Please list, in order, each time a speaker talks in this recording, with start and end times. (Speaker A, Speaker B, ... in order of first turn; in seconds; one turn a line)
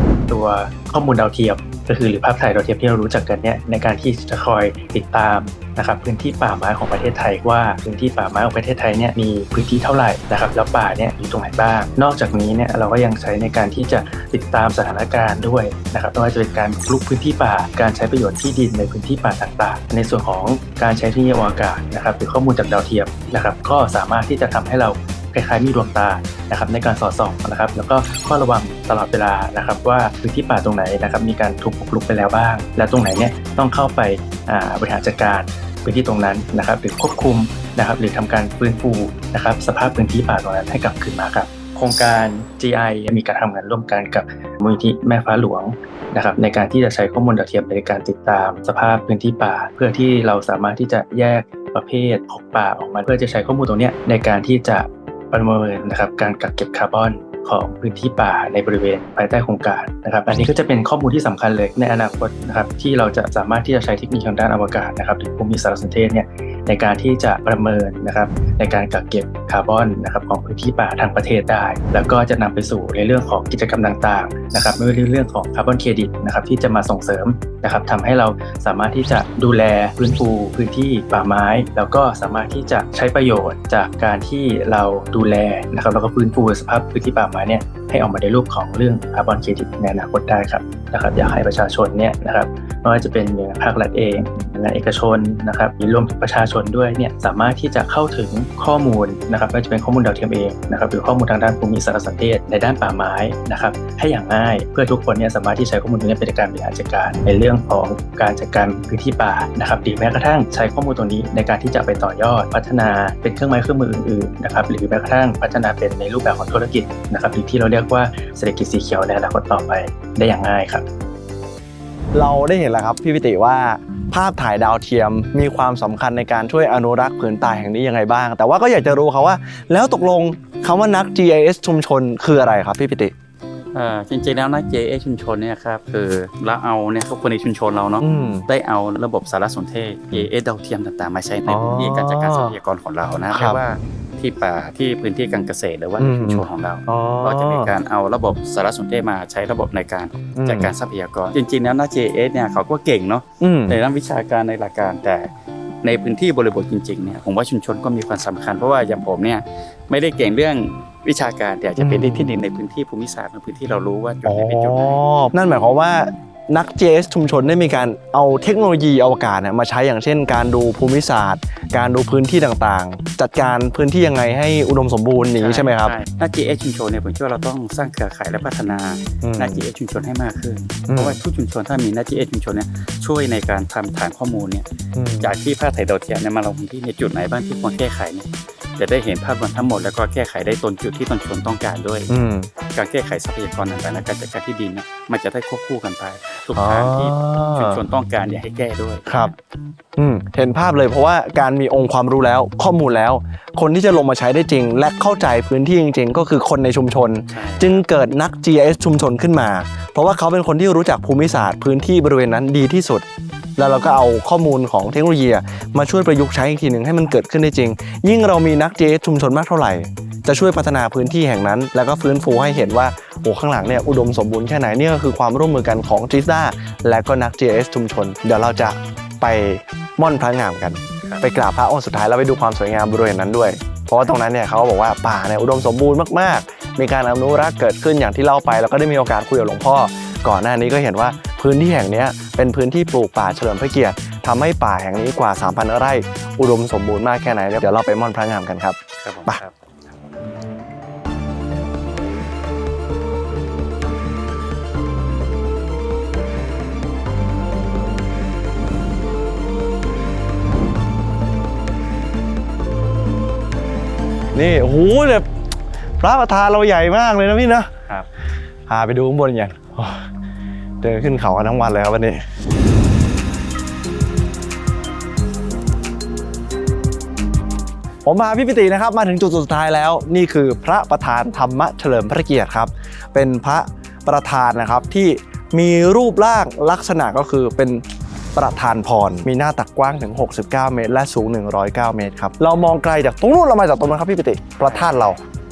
Speaker A: 0.3-120.8
Speaker B: 122.1-133.1
Speaker C: 133.7-155.3
Speaker B: 138.0-138.5
Speaker B: 141.4-142.6
Speaker B: 143.3-143.6
Speaker B: 146.0-147.7
Speaker B: 150.3-150.7
Speaker B: 153.4-153.8
Speaker C: 155.8-165.0
Speaker B: 161.8-162.4
Speaker B: 164.2-175.9
Speaker C: 175.3-184.7
Speaker B: 179.2-179.7
Speaker B: 180.9-181.2
Speaker B: 184.9-185.3
Speaker C: 185.2-192.1
Speaker B: 192.1-192.5
Speaker C: 192.7-199.3
Speaker B: 196.5-197.8
Speaker B: 199.1-199.3
Speaker B: 200.0-213.1
Speaker C: 207.3-207.8
Speaker B: 213.6-249.4
Speaker C: 249.0-249.5
Speaker B: 264.3-265.2
Speaker B: 266.0-267.7
Speaker B: 268.7-270.0
Speaker B: 270.8-272.2
Speaker B: 278.0-287.8
Speaker B: 288.4-295.2
Speaker C: 294.6-294.9